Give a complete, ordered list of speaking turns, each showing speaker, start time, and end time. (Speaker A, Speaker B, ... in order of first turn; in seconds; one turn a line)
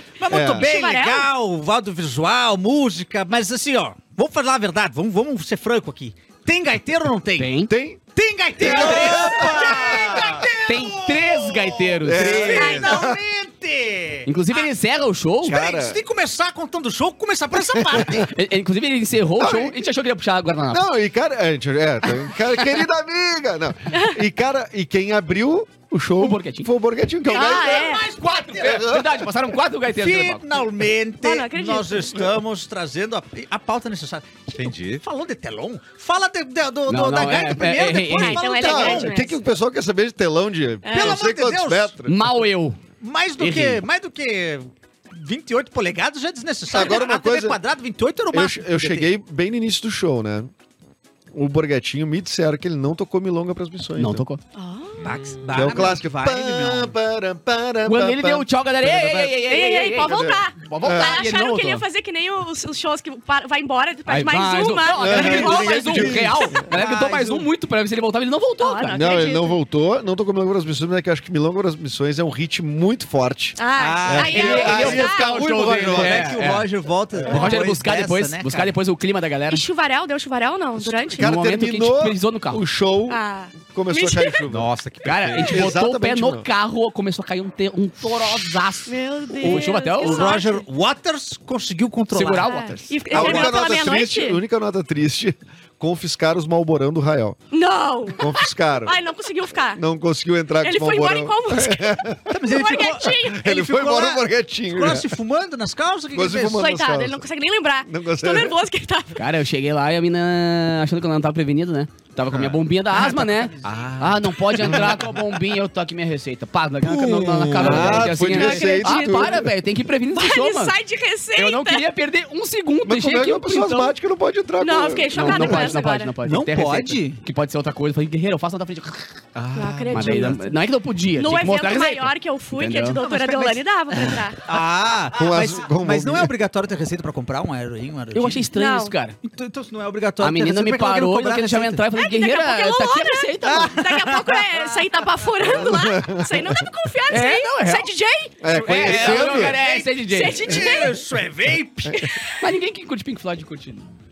Speaker A: 0.2-7.6
Speaker B: 0.3-0.7
Speaker C: 0.6-1.3
Speaker D: 7.4-7.7
Speaker B: 7.7-8.0
Speaker A: 8.1-14.7
Speaker B: 8.6-10.5
Speaker D: 8.6-12.6
Speaker B: 12.0-13.2
Speaker C: 12.5-13.1
Speaker D: 14.2-15.6
Speaker B: 15.4-16.0
Speaker A: 15.4-18.3
Speaker B: 17.6-18.3
Speaker D: 18.3-20.9
Speaker B: 19.4-19.8
Speaker B: 20.7-28.0
Speaker C: 23.9-24.2
Speaker D: 26.2-26.7
Speaker A: 27.3-28.8
Speaker C: 27.3-28.1
Speaker D: 28.2-30.6
Speaker B: 28.6-29.3
Speaker A: 29.9-39.1
Speaker C: 31.2-32.2
Speaker E: 34.5-35.0
Speaker D: 36.9-38.5
Speaker C: 38.2-39.4
Speaker B: 38.5-42.3
Speaker C: 40.8-41.2
Speaker A: 40.9-42.0
Speaker D: 42.1-42.8
Speaker A: 43.0-49.1
Speaker D: 43.4-43.8
Speaker B: 46.7-47.6
Speaker B: 48.3-50.5
Speaker B: 51.3-54.2
Speaker D: 54.0-54.4
Speaker C: 54.5-55.0
Speaker A: 55.0-56.9
Speaker B: 55.5-59.5
Speaker D: 57.9-61.9
Speaker C: 59.5-66.3
Speaker B: 60.0-61.2
Speaker D: 64.1-69.2
Speaker B: 65.0-66.7
Speaker A: 66.7-67.5
Speaker C: 68.6-69.6
Speaker B: 68.9-76.4
Speaker C: 73.6-75.3
Speaker A: 73.8-78.7
Speaker D: 74.2-76.7
Speaker B: 77.2-77.5
Speaker D: 77.2-79.7
Speaker C: 79.5-81.3
Speaker B: 80.8-84.7
Speaker D: 81.2-82.6
Speaker C: 83.1-84.4
Speaker E: 84.5-85.6
Speaker D: 85.0-90.4
Speaker B: 85.5-86.5
Speaker C: 88.9-90.6
Speaker A: 89.4-92.5
Speaker D: 92.1-93.0
Speaker C: 92.4-94.4
Speaker A: 93.1-93.6
Speaker B: 93.1-97.4
Speaker C: 97.5-99.8
Speaker B: 98.2-99.0
Speaker B: 99.7-105.2
Speaker C: 100.6-103.5
Speaker A: 102.3-106.7
Speaker B: 106.1-107.3
Speaker C: 106.5-109.2
Speaker B: 107.8-108.6
Speaker D: 109.2-120.8
Speaker B: 112.3-112.6
Speaker A: 113.0-114.0
Speaker E: 113.6-114.3
Speaker B: 116.9-119.5
Speaker E: 117.1-118.1
Speaker C: 118.1-119.4
Speaker C: 120.1-121.9
Speaker D: 121.3-123.9
Speaker B: 122.8-125.8
Speaker C: 124.6-126.1
Speaker D: 125.1-129.2
Speaker A: 126.2-127.2
Speaker E: 129.4-129.7
Speaker C: 129.5-130.6
Speaker A: 129.8-130.1
Speaker D: 129.9-133.0
Speaker C: 131.1-134.5
Speaker A: 133.0-138.5
Speaker B: 135.1-136.3
Speaker D: 138.1-139.2
Speaker C: 138.5-138.9
Speaker A: 139.2-141.8
Speaker D: 140.2-143.8
Speaker C: 141.9-148.4
Speaker A: 143.4-144.8
Speaker B: 145.4-146.6
Speaker D: 147.1-147.9
Speaker B: 148.4-149.6
Speaker A: 148.5-152.1
Speaker D: 148.6-150.4
Speaker C: 150.1-151.0
Speaker C: 151.9-152.3
Speaker D: 152.4-153.9